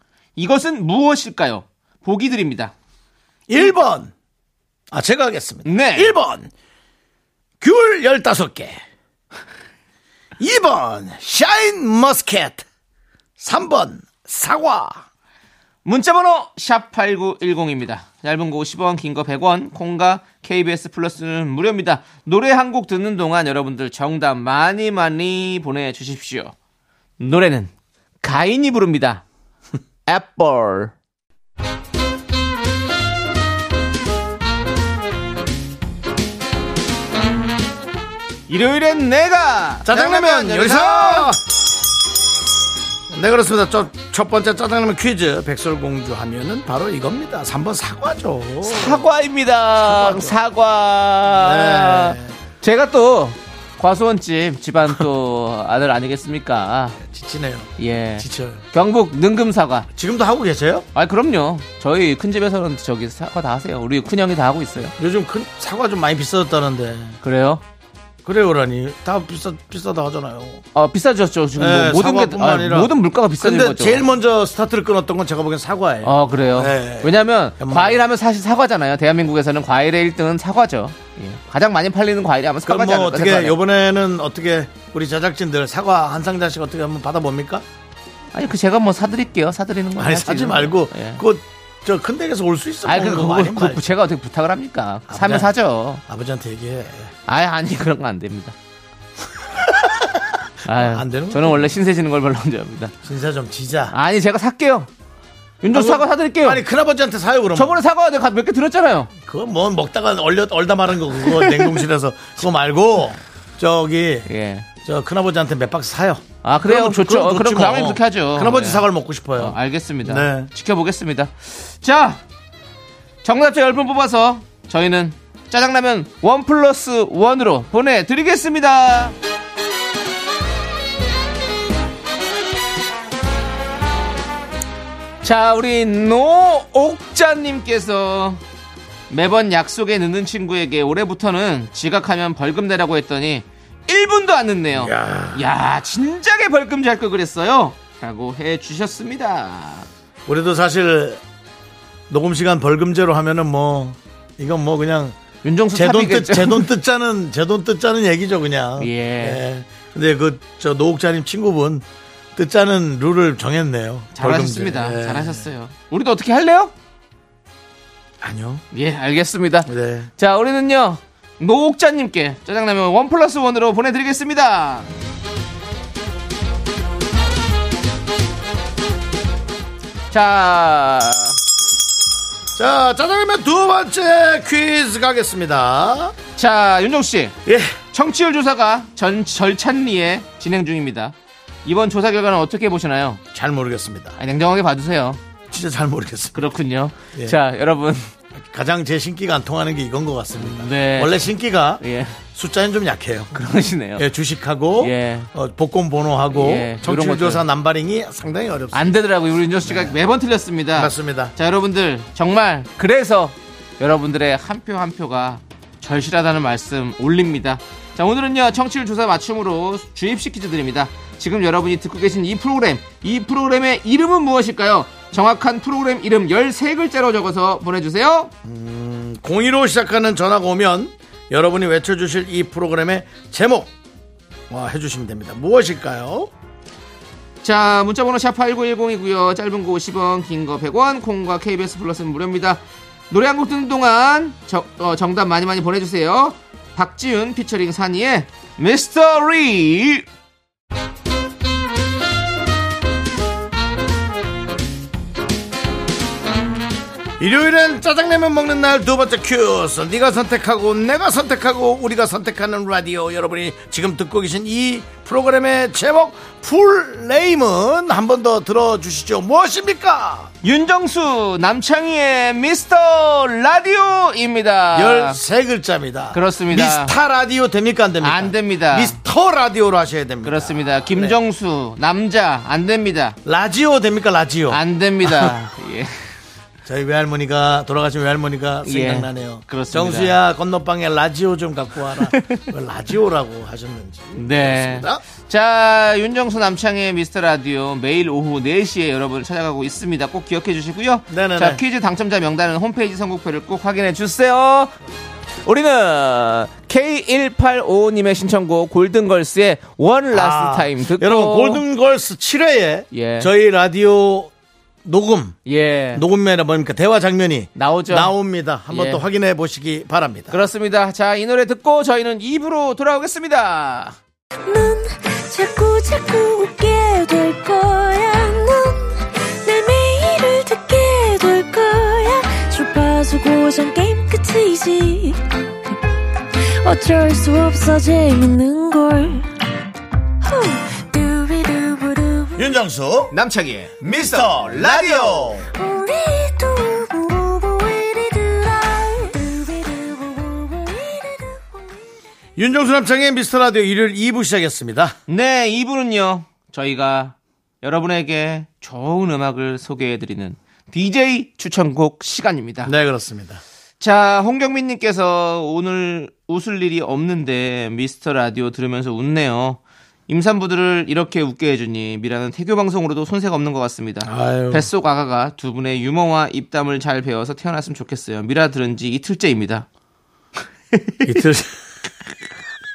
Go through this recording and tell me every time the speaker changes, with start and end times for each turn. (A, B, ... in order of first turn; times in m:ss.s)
0:00.4-0:02.7 A
0:03.5-0:04.1 B
0:04.9-0:06.5 B
0:05.6-0:06.2 A
0:07.6-0:08.8 B
0:10.4-0:12.6 B
0:13.4-0:15.0 B
0:15.8-0:26.5 A
0:27.2-0:27.7 A
0:28.2-0:29.2 A
0:30.1-0:30.9 A
0:38.5-0:41.3 A
0:39.9-0:41.4 B
0:43.1-0:49.1 B
0:48.6-0:57.0 A
0:49.8-0:50.4 B
0:51.3-0:52.3 B
0:57.0-0:58.6 B
0:57.8-0:59.9 A
0:59.9-1:00.9 B
1:01.0-1:04.9 A
1:05.0-1:07.2 B
1:07.2-1:07.6 A
1:08.2-1:10.6 B
1:10.7-1:14.0 A
1:11.6-1:18.0 B
1:16.0-1:23.6 A
1:22.6-1:27.6 B
1:28.3-1:31.2 A
1:30.0-1:33.8 B
1:32.8-1:36.0 A
1:35.1-1:35.5 B
1:36.0-1:37.1 B
1:37.3-1:38.6 A
1:39.6-1:40.2 B
1:40.6-1:42.9 A
1:40.8-1:41.7 B
1:43.0-1:43.9 B
1:43.9-1:44.9 A
1:45.6-1:46.6 A
1:45.7-1:47.8 B
1:47.6-1:49.1 A
1:49.2-1:54.3 B
1:51.3-1:51.8 A
1:54.3-1:54.7 A
1:54.8-2:00.5 B
1:56.4-2:02.2 A
2:03.2-2:09.2 A
2:15.2-2:18.4 A
2:19.1-2:29.9 A
2:24.8-2:25.5 B
2:30.3-2:31.2 B
2:32.1-2:35.2 B
2:35.4-2:36.7 A
2:35.7-2:41.8 B
2:38.8-2:39.4 A
2:42.4-2:45.5 B
2:44.2-2:46.7 A
2:48.2-2:48.6 B
2:48.7-2:54.9 A
2:49.7-2:50.1 B
3:00.1-3:01.4 A
3:02.6-3:06.2 B
3:06.4-3:07.4 A
3:07.5-3:07.8 B
3:07.9-3:13.2 A
3:13.3-3:14.2 B
3:14.2-3:15.2 A
3:15.5-3:16.5 B
3:16.3-3:18.1 A
3:18.4-3:23.4 B
3:20.4-3:21.3 A
3:21.8-3:22.2 A
3:23.3-3:24.1 A
3:24.0-3:29.0 B
3:24.8-3:25.3 A
3:26.3-3:27.4 A
3:28.7-3:48.3 A
3:29.6-3:30.0 B
3:30.8-3:31.3 B
3:48.4-3:53.7 B
3:54.5-3:56.3 B
3:57.4-4:10.1 A
4:17.2-4:30.3 B
4:30.4-4:35.2 A
4:34.7-4:41.2 B
4:36.1-4:37.0 A
4:38.0-4:39.0 A
4:40.2-4:43.2 A
4:43.2-4:45.3 B
4:44.5-4:46.0 A
4:46.7-4:55.0 B
4:48.6-4:50.2 A
4:52.0-4:52.4 A
4:54.2-5:04.7 A
5:01.1-5:01.6 B
5:05.4-5:11.6 A
5:10.1-5:14.3 B
5:12.9-5:13.3 A
5:14.8-5:15.4 B
5:15.5-5:16.0 A
5:15.9-5:20.4 B
5:17.6-5:18.1 A
5:18.7-5:19.0 A
5:20.3-5:24.0 A
5:24.5-5:35.2 C
5:36.6-5:39.3 C
5:40.2-5:42.5 C
5:42.4-5:43.2 B
5:43.1-5:45.4 A
5:43.8-5:45.5 B
5:45.5-5:51.7 C
5:52.4-5:55.0 B
5:55.1-6:02.7 A
6:02.6-6:03.4 B
6:03.8-6:19.7 A
6:14.0-6:14.7 B
6:20.7-6:21.1 A
6:21.0-6:21.6 B